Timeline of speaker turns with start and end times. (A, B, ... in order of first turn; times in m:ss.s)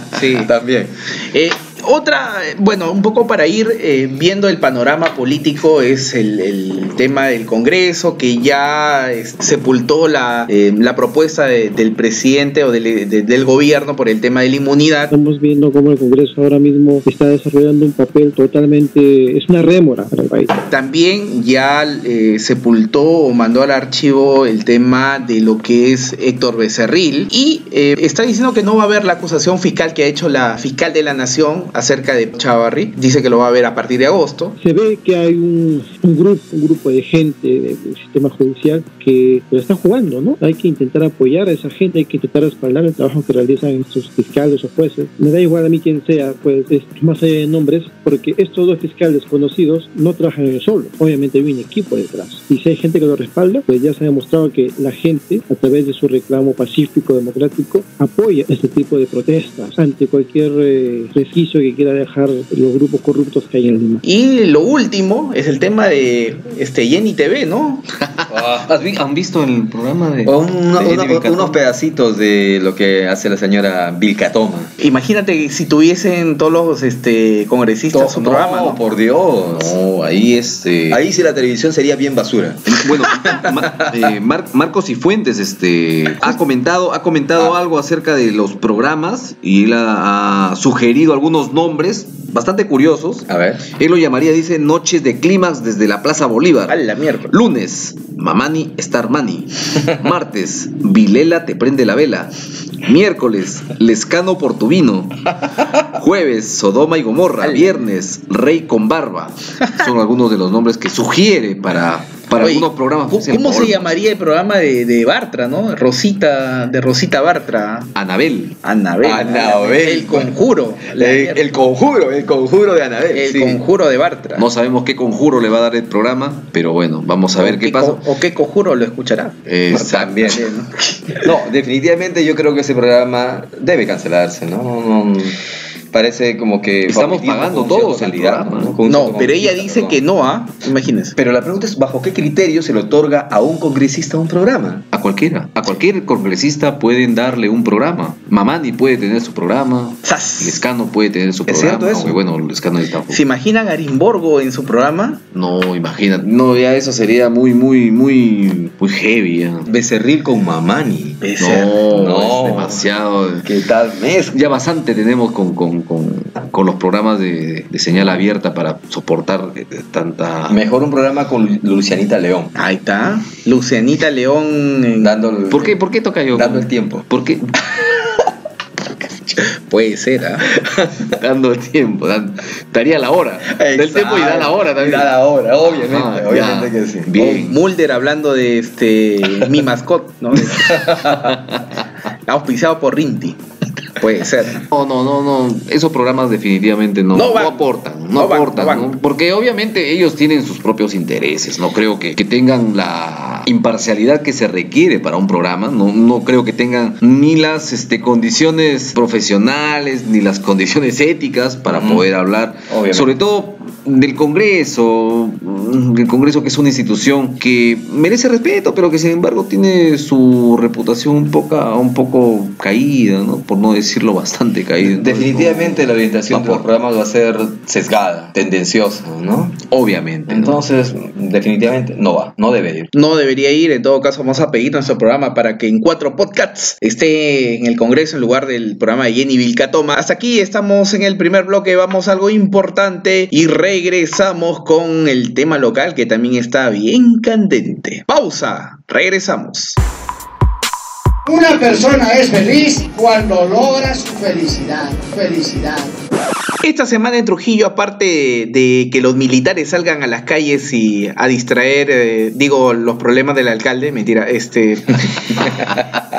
0:00.1-0:00.5 A
0:00.4-0:00.9 B
0:01.3-0:15.1 A
0:15.1-0:20.5 C
0:20.7-0:34.6 A
0:34.6-1:04.0 C
1:04.0-1:07.8 A
1:08.2-1:11.6 D
1:08.3-1:08.7 B
1:10.2-1:14.7 B
1:14.8-1:18.8 A
1:17.9-1:19.8 B
1:19.5-1:21.0 D
1:20.9-1:24.1 B
1:22.7-1:54.0 D
1:33.3-1:33.7 B
1:36.7-1:37.3 A
1:47.4-1:47.8 A
1:52.4-1:57.9 A
1:58.0-1:58.6 D
1:58.6-2:01.4 A
1:59.0-2:00.3 B
2:01.0-2:03.6 B
2:03.1-2:04.5 A
2:04.4-2:08.0 D
2:07.4-2:09.4 A
2:09.5-2:10.4 D
2:09.7-2:10.5 B
2:10.3-2:11.2 A
2:11.2-2:15.4 B
2:15.9-2:20.0 B
2:16.9-2:18.8 D
2:18.9-2:21.2 A
2:21.2-2:24.9 B
2:24.9-2:33.2 D
2:30.0-2:30.6 A
2:31.5-2:32.2 B
2:33.1-2:35.2 A
2:35.3-2:39.7 D
2:39.7-2:41.3 B
2:41.2-2:41.7 A
2:41.4-2:43.5 D
2:41.9-2:42.8 B
2:43.4-2:44.5 B
2:44.3-2:50.6 D
2:50.5-2:52.5 B
2:52.6-2:55.1 A
2:55.0-2:55.8 B
2:55.5-2:57.5 D
2:56.3-2:57.1 B
2:59.6-3:00.5 A
3:00.6-3:01.1 B
3:01.1-3:05.2 D
3:03.5-3:07.1 B
3:05.7-3:07.6 D
3:07.2-3:10.8 A
3:10.5-3:11.3 B
3:11.1-3:11.8 D
3:12.3-3:13.4 A
3:14.0-3:14.6 A
3:14.7-3:46.6 D
3:17.1-3:19.0 A
3:31.7-3:32.1 B
3:32.7-3:33.1 B
3:44.8-3:49.6 B
3:49.7-3:50.6 D
3:50.3-3:52.9 B
3:52.9-4:09.8 A
4:11.3-4:15.9 E
4:16.6-4:25.8 A